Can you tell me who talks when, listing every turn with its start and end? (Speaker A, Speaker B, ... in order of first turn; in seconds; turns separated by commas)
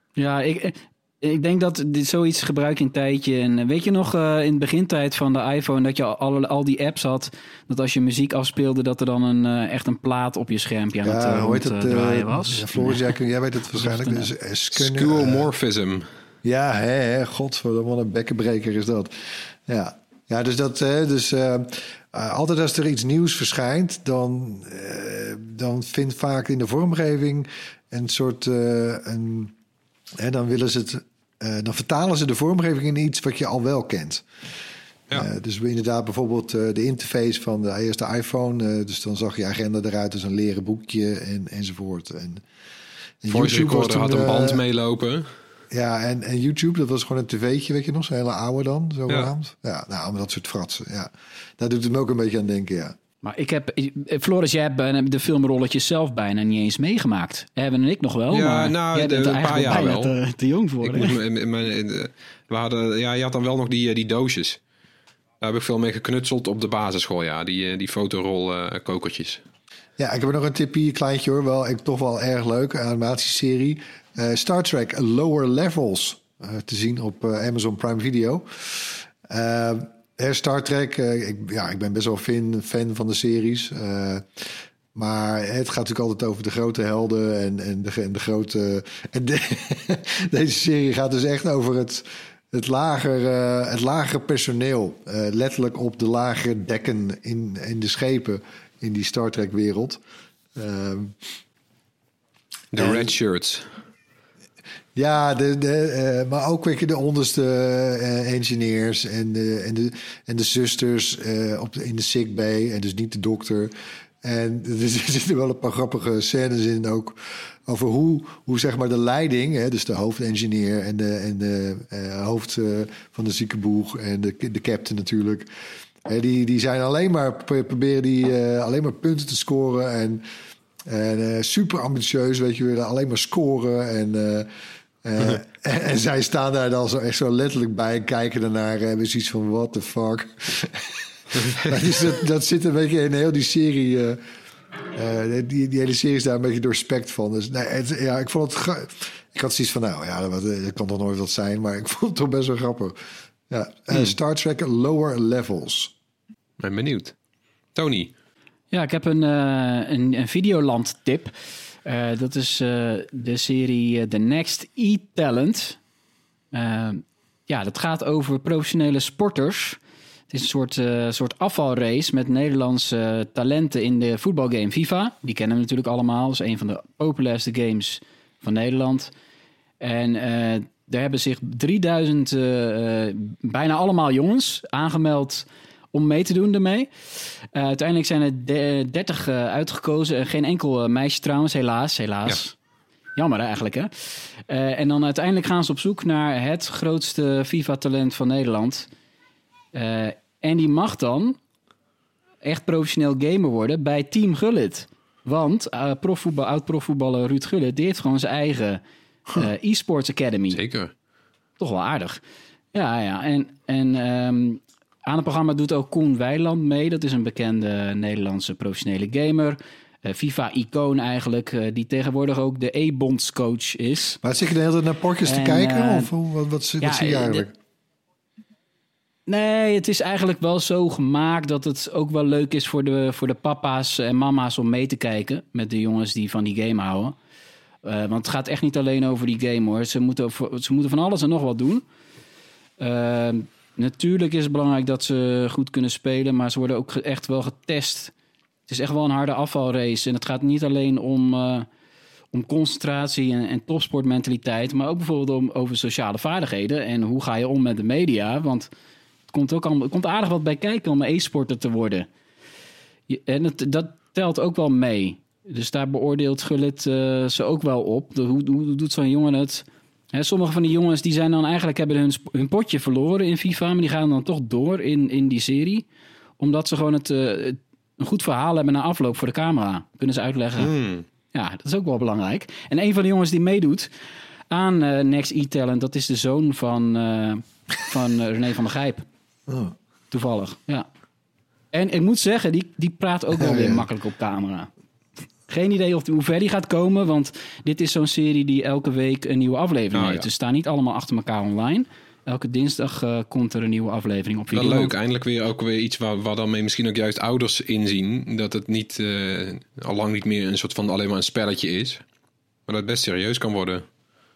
Speaker A: 0.2-13.1, Speaker B: 11.0-15.5, Speaker A: 13.7-14.3, Speaker C: 14.7-16.1, Speaker B: 16.4-29.5, Speaker B: 30.2-34.2, Speaker B: 35.1-42.4, Speaker B: 43.2-44.6, Speaker C: 43.3-45.3, Speaker B: 45.7-53.0, Speaker A: 53.2-61.1, Speaker C: 58.3-60.1, Speaker C: 60.8-64.6, Speaker C: 65.4-69.4, Speaker B: 70.0-100.0, Speaker B: 100.5-101.2, Speaker C: 102.7-103.7, Speaker B: 102.8-103.1, Speaker B: 104.9-125.5, Speaker B: 126.0-130.2, Speaker B: 130.8-134.5, Speaker B: 135.0-144.2, Speaker B: 144.9-153.0, Speaker B: 153.5-155.9, Speaker C: 156.6-157.1, Speaker C: 157.7-158.1, Speaker A: 158.7-161.3, Speaker A: 161.8-165.8, Speaker A: 166.5-169.8, Speaker A: 170.3-179.1, Speaker A: 179.8-192.6, Speaker A: 193.2-198.9, Speaker A: 199.7-201.4, Speaker A: 202.4-210.6, Speaker C: 210.5-210.9, Speaker A: 211.6-212.2, Speaker A: 212.7-224.2, Speaker B: 224.2-227.5, Speaker A: 225.2-226.1, Speaker A: 226.8-227.4, Speaker A: 229.3-237.1, Speaker A: 237.8-241.8, Speaker A: 242.8-248.1, Speaker A: 248.7-251.7, Speaker A: 252.3-258.7, Speaker A: 259.3-262.1, Speaker A: 263.1-275.8, Speaker A: 276.4-280.7, Speaker C: 280.6-281.0, Speaker A: 281.3-283.9, Speaker A: 284.5-289.0, Speaker B: 289.5-289.7, Speaker A: 290.1-290.9, Speaker A: 291.7-294.7, Speaker B: 293.3-293.9, Speaker A: 295.5-304.9, Speaker C: 299.9-300.3, Speaker C: 304.5-312.0, Speaker C: 312.7-313.8